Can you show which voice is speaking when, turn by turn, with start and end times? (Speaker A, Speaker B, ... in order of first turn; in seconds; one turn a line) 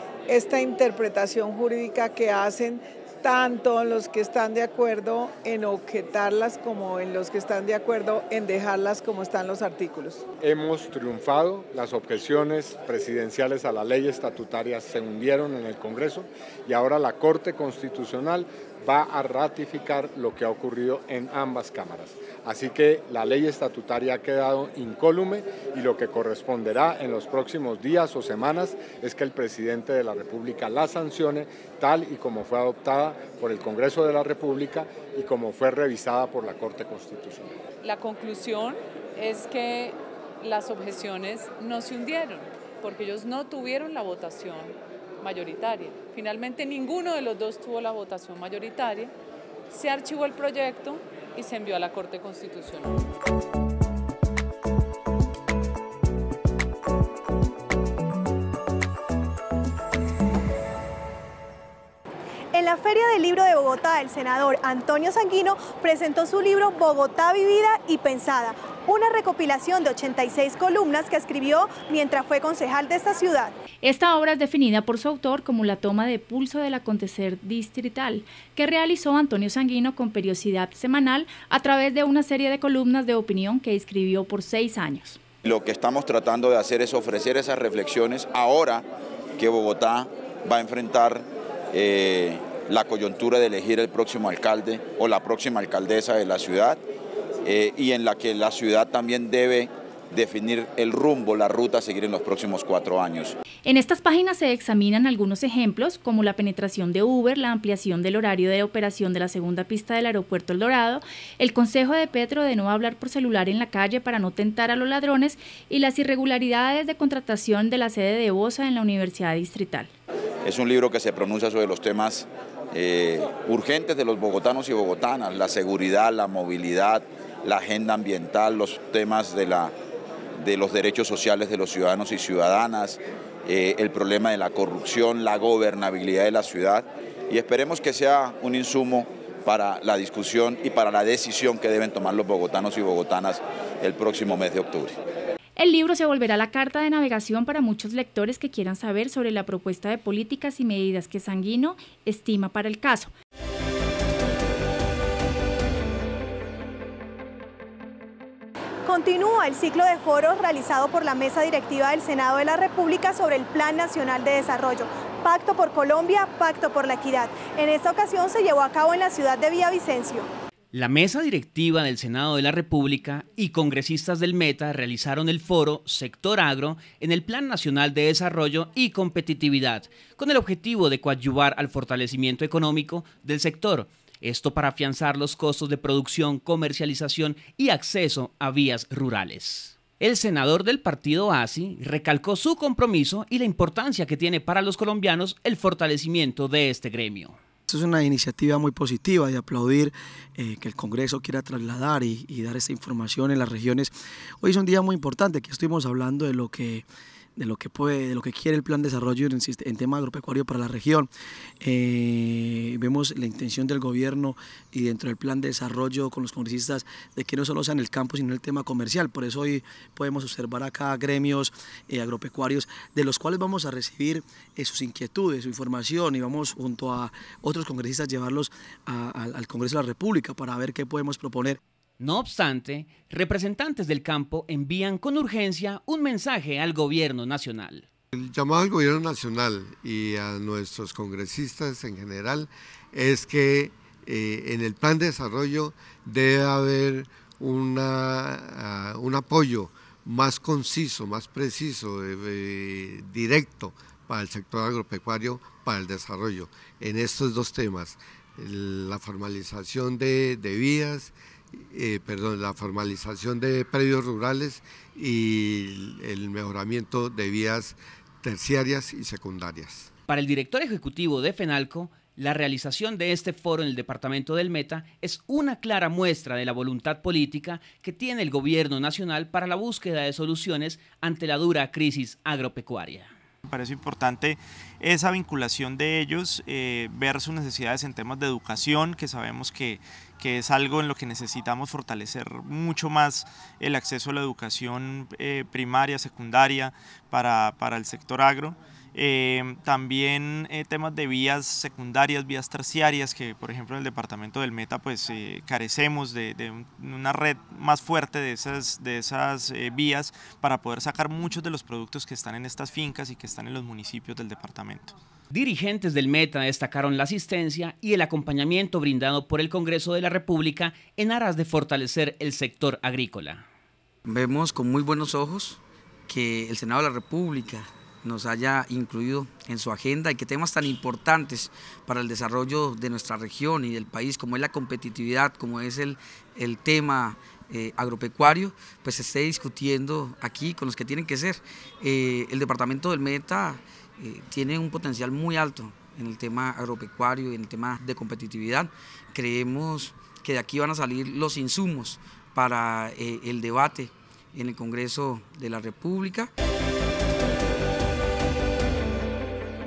Speaker A: 0.3-10.3
Speaker B: 10.4-37.6
Speaker C: 37.8-49.1
Speaker C: 49.7-53.0
Speaker D: 62.5-73.5
Speaker E: 73.8-85.2
Speaker F: 85.4-96.8
Speaker F: 97.4-103.3
Speaker E: 103.6-119.9
Speaker F: 120.4-129.7
Speaker F: 130.4-145.0
Speaker E: 145.6-153.1
Speaker D: 158.8-170.3
Speaker G: 170.7-197.4
Speaker H: 197.7-211.1
Speaker H: 211.6-231.6
Speaker G: 232.0-237.8
Speaker I: 238.1-269.9
Speaker G: 270.1-283.1
Speaker J: 283.5-314.9
Speaker G: 315.3-323.4
Speaker K: 324.1-356.3